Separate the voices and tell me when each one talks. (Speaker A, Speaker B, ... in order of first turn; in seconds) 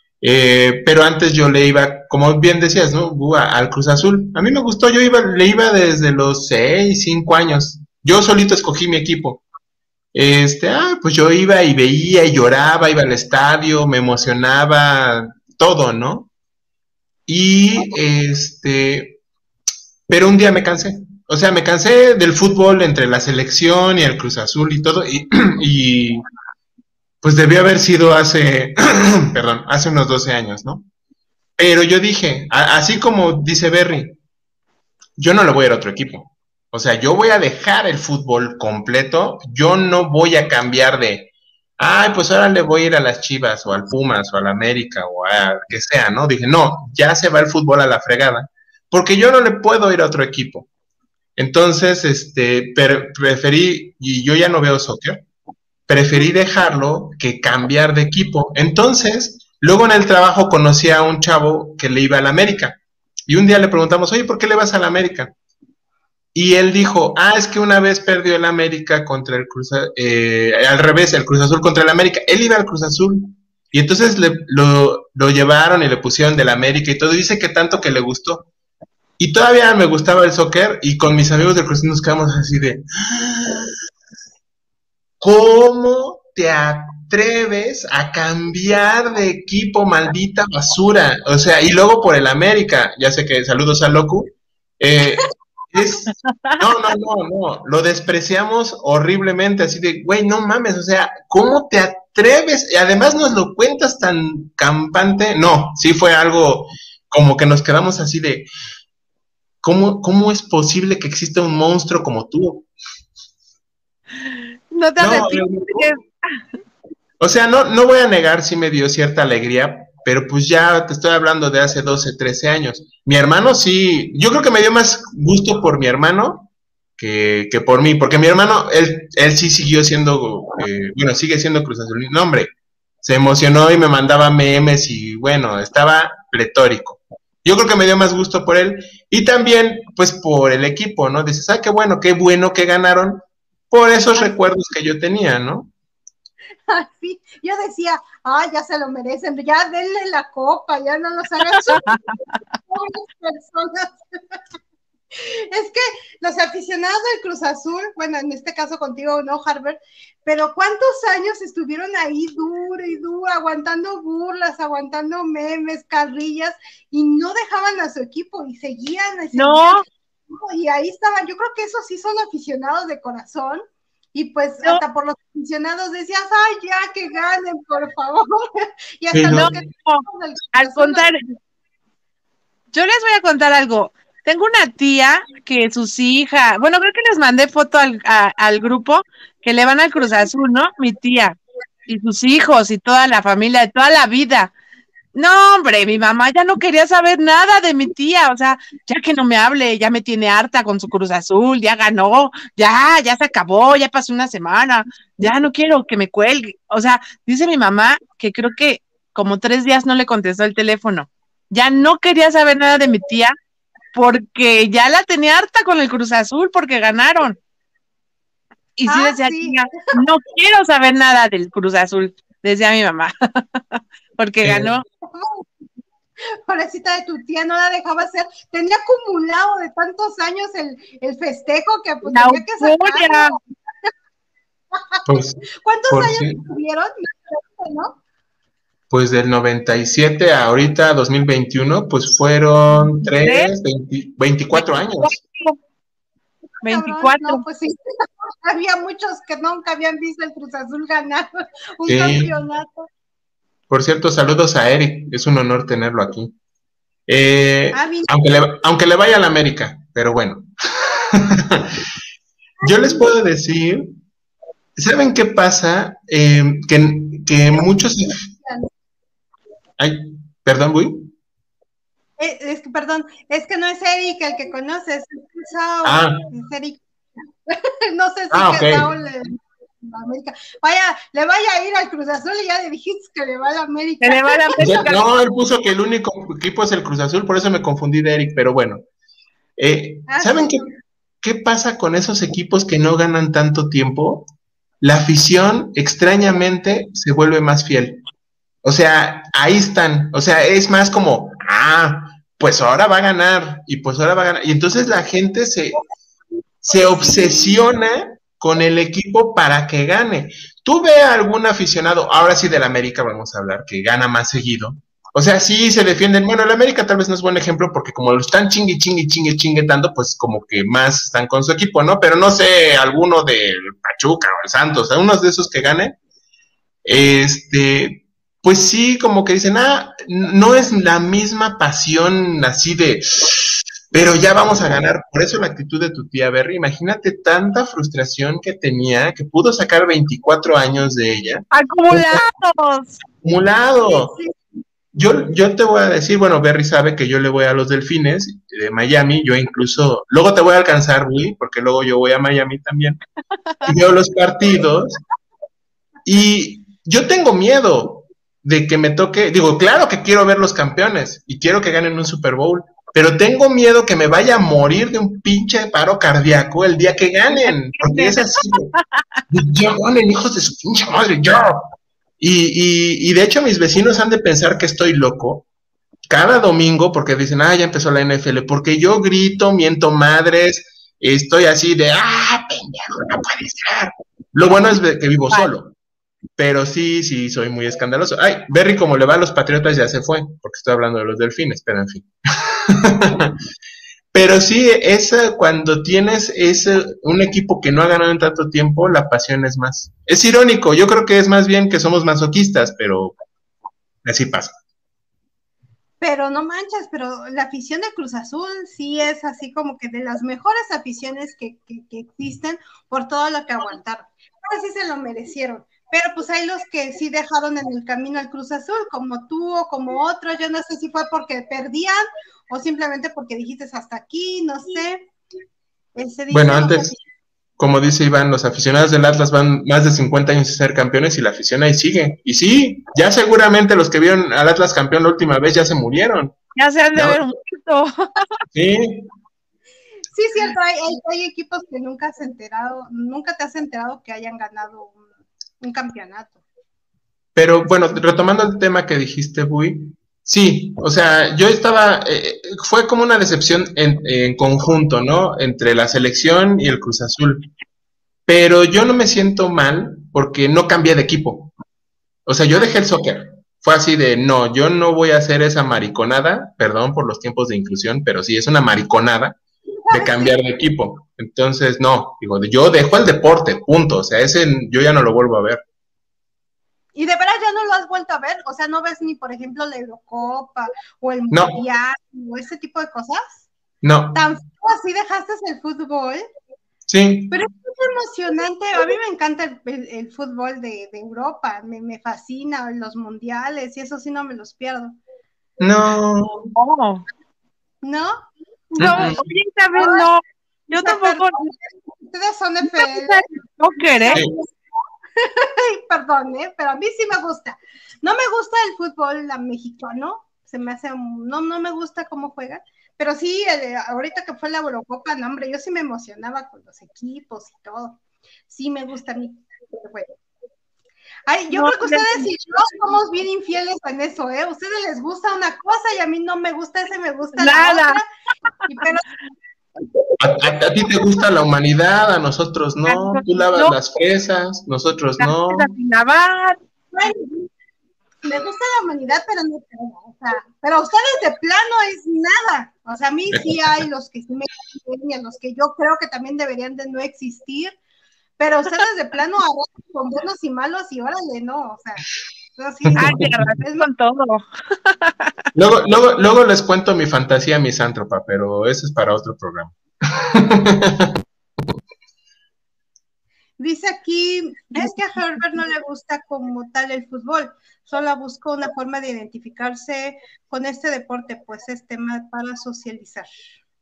Speaker A: 0.2-9.4, 10.1-16.3, 17.3-19.2, 20.1-26.2, 27.2-30.8, 31.6-34.2, 35.2-50.7, 51.4-55.2, 55.9-65.3, 66.3-78.5, 79.2-83.7, 85.2-108.5, 109.6-112.7, 115.0-115.9, 117.2-145.7, 179.1-179.5, 224.4-224.7, 235.1-236.4, 238.9-245.2, 251.8-252.3, 253.7-256.3, 257.1-261.7, 262.6-263.9, 264.8-268.2, 269.8-271.1, 275.8-276.2, 278.3-278.9, 284.6-288.8, 289.6-290.6, 291.2-294.3, 294.8-298.0, 298.6-305.8, 306.6-326.0, 326.8-342.2, 343.2-344.1, 344.9-353.0, 353.6-355.0, 356.1-368.7, 369.3-371.7, 372.2-375.4, 376.1-385.7, 386.4-393.4, 394.1-403.2, 404.0-404.6, 426.3-426.9, 427.6-436.3, 436.9-437.2, 438.5-439.1, 447.4-457.5, 458.3-461.5, 462.2-469.4, 469.9-475.6, 481.3-481.6, 483.8-484.2, 486.9-487.4, 495.6-496.5, 498.8-499.2, 530.2-535.7, 552.8-553.4, 555.5-561.2
Speaker B: 96.3-96.6, 114.3-116.0, 151.5-152.2, 169.3-169.8, 179.2-181.2, 182.7-194.5, 195.1-213.3, 213.9-217.4, 218.8-224.8, 232.1-233.3, 243.1-243.5, 244.5-245.6, 246.6-247.4, 284.0-284.9, 341.5-343.0, 367.3-368.8, 436.6-438.2, 496.5-497.1, 498.8-501.4, 502.7-504.2, 521.5-522.3, 527.4-528.0, 532.9-533.7, 535.2-536.6, 553.0-555.3
Speaker C: 146.7-152.0, 152.7-154.0, 155.1-173.6, 174.1-181.1, 218.9-219.8, 225.0-225.5, 226.5-233.4, 235.6-238.0, 246.7-247.8, 248.4-252.9, 257.7-258.1, 268.4-268.7, 272.2-276.8, 277.5-284.9, 290.1-290.7, 343.8-344.3, 406.0-425.1, 425.9-427.0, 440.1-445.0, 445.6-446.4, 462.5-462.8, 469.9-470.4, 476.9-483.4, 484.1-486.2, 487.3-495.0, 497.8-499.2, 499.7-500.1, 500.7-503.3, 503.9-504.5, 505.2-520.1, 521.3-528.1, 528.7-529.0, 536.9-537.5, 538.2-547.8, 548.4-552.0, 552.6-553.9, 563.6-573.3